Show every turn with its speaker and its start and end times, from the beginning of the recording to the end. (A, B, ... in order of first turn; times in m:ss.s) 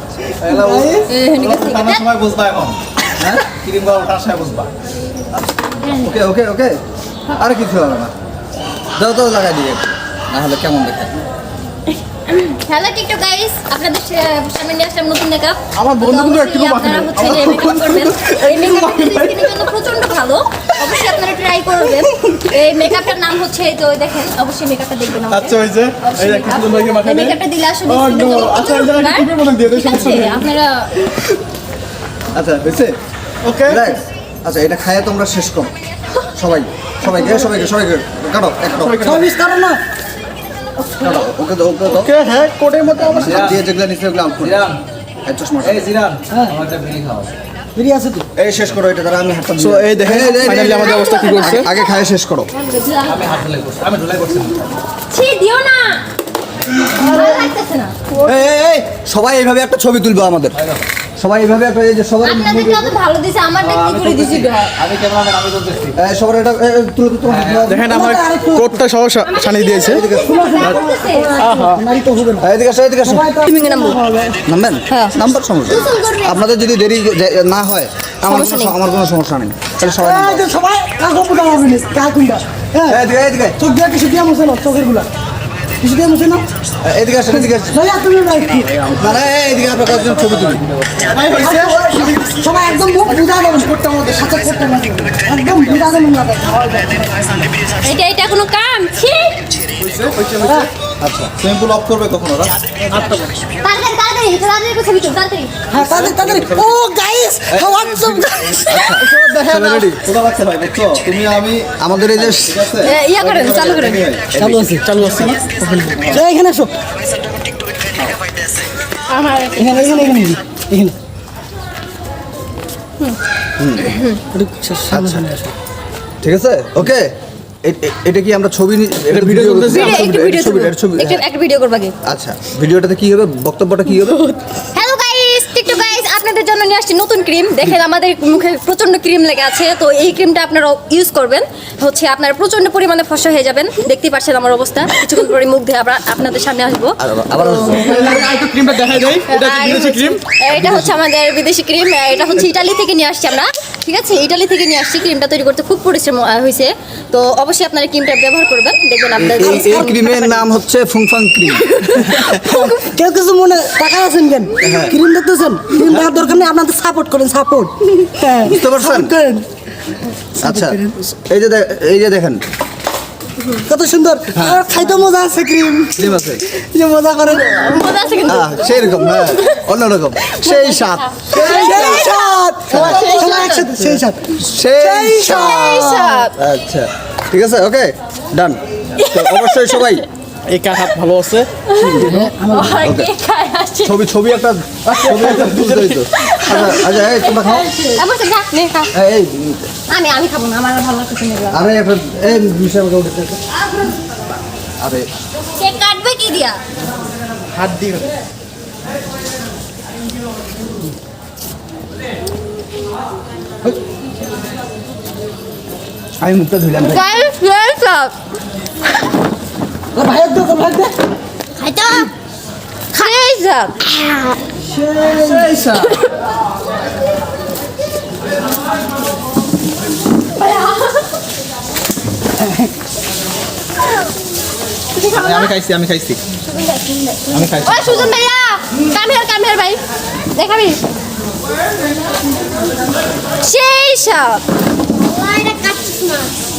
0:00.4-0:02.8 A
0:00.4-0:01.0 B
0:01.0-0:02.0 C
0:03.2-0:03.5 D
0:03.6-0:04.7 A
0:06.0-0:06.8 D
0:07.3-0:08.1 D
0:09.0-0:11.2 D
0:12.1-0:30.9 C
0:15.7-0:19.6 E
0:25.3-0:30.5 E
0:32.3-0:32.9 D
0:33.4-0:33.8 E
0:33.6-0:35.7 D
0:36.2-0:39.2 D
0:38.7-0:39.3 E
0:39.0-0:39.8 B
0:41.0-0:42.1 D
0:41.9-0:43.1 E
0:42.9-0:44.7 D
0:43.2-0:43.6 A
0:44.4-0:44.8 A
0:45.2-0:45.9 D
0:45.6-0:47.3 A
0:46.3-0:46.6 B
0:47.7-0:48.2 B
0:48.4-0:52.5 D
0:49.6-0:51.7 E
0:50.6-0:51.7 C
0:52.5-0:53.3 C
0:53.1-0:54.6 A
0:55.1-0:56.0 C
0:56.9-0:58.0 C
0:57.0-0:57.4 B
0:58.2-1:00.6 D
1:01.2-1:02.9 D
1:02.2-1:04.7 C
1:03.6-1:06.0 A
1:06.0-1:08.0 D
1:07.3-1:07.7 A
1:07.7-1:10.0 E
1:07.8-1:08.8 B
1:09.3-1:11.3 C
1:09.7-1:10.7 D
1:10.0-1:12.5 B
1:11.4-1:11.8 E
1:12.4-1:13.3 D
1:13.0-1:14.4 B
1:13.4-1:14.0 C
1:14.4-1:20.5 D
1:14.9-1:15.2 C
1:15.7-1:16.4 C
1:18.2-1:18.7 C
1:19.9-1:23.0 B
1:22.8-1:23.6 D
1:23.6-1:25.1 B
1:25.8-1:26.4 B
1:26.8-1:27.8 D
1:27.3-1:28.9 B
1:28.9-1:30.6 D
1:29.9-1:31.1 A
1:31.1-1:31.8 E
1:31.2-1:37.1 B
1:37.8-1:39.4 C
1:39.7-1:40.7 E
1:40.4-1:40.7 B
1:41.0-1:41.4 D
1:41.4-1:42.5 A
1:42.8-1:43.3 E
1:43.6-1:45.5 C
1:45.7-1:48.9 B
1:46.0-1:46.7 A
1:47.5-1:48.2 A
1:48.7-1:50.1 D
1:48.9-1:50.0 E
1:50.0-1:54.4 A
1:51.7-1:52.8 D
1:52.8-1:54.2 C
1:54.3-1:56.7 B
1:54.8-1:56.0 E
1:59.1-1:59.6 C
1:59.5-2:00.9 B
2:03.6-2:03.9 D
2:03.8-2:04.2 C
2:04.3-2:05.5 B
2:04.9-2:05.2 D
2:06.2-2:07.1 D
2:07.6-2:11.2 D
2:09.1-2:09.9 E
2:09.7-2:11.9 C
2:12.0-2:14.3 D
2:14.7-2:27.0 C
2:27.0-2:28.2 D
2:27.6-2:30.2 E
2:29.3-2:39.9 C
2:39.2-2:41.6 D
2:39.4-2:40.4 B
2:41.7-2:49.4 B
2:44.6-2:44.9 D
2:48.4-2:49.1 D
2:50.4-2:51.1 B
2:50.4-2:52.4 D
2:53.6-2:58.3 B
2:54.3-2:54.6 D
2:56.0-2:56.4 D
2:57.5-2:59.6 C
2:58.3-3:02.1 D
3:00.3-3:03.7 C
3:01.3-3:05.9 B
3:02.7-3:03.2 D
3:04.3-3:10.0 D
3:05.3-3:06.3 C
3:09.0-3:09.9 C
3:10.5-3:11.5 E
3:11.6-3:14.0 C
3:11.8-3:12.2 D
3:12.1-3:12.8 B
3:12.8-3:13.1 D
3:13.8-3:17.7 D
3:14.9-3:16.0 E
3:16.1-3:18.9 C
3:18.9-3:19.7 D
3:19.9-3:21.6 C
3:21.5-3:23.4 D
3:25.6-3:26.6 C
3:27.5-3:28.1 E
3:36.2-3:37.1 D
3:36.8-3:38.1 C
3:39.9-3:41.0 B
3:41.6-3:42.1 C
3:42.9-3:44.4 C
3:44.7-3:45.5 B
3:44.8-3:46.0 D
3:45.8-3:46.1 C
3:50.3-3:51.1 C
3:54.9-3:55.5 C
3:55.1-3:56.2 A
3:56.4-3:59.8 C
3:57.3-3:58.1 A
4:00.3-4:00.8 C
4:03.4-4:04.4 C
4:05.0-4:06.3 C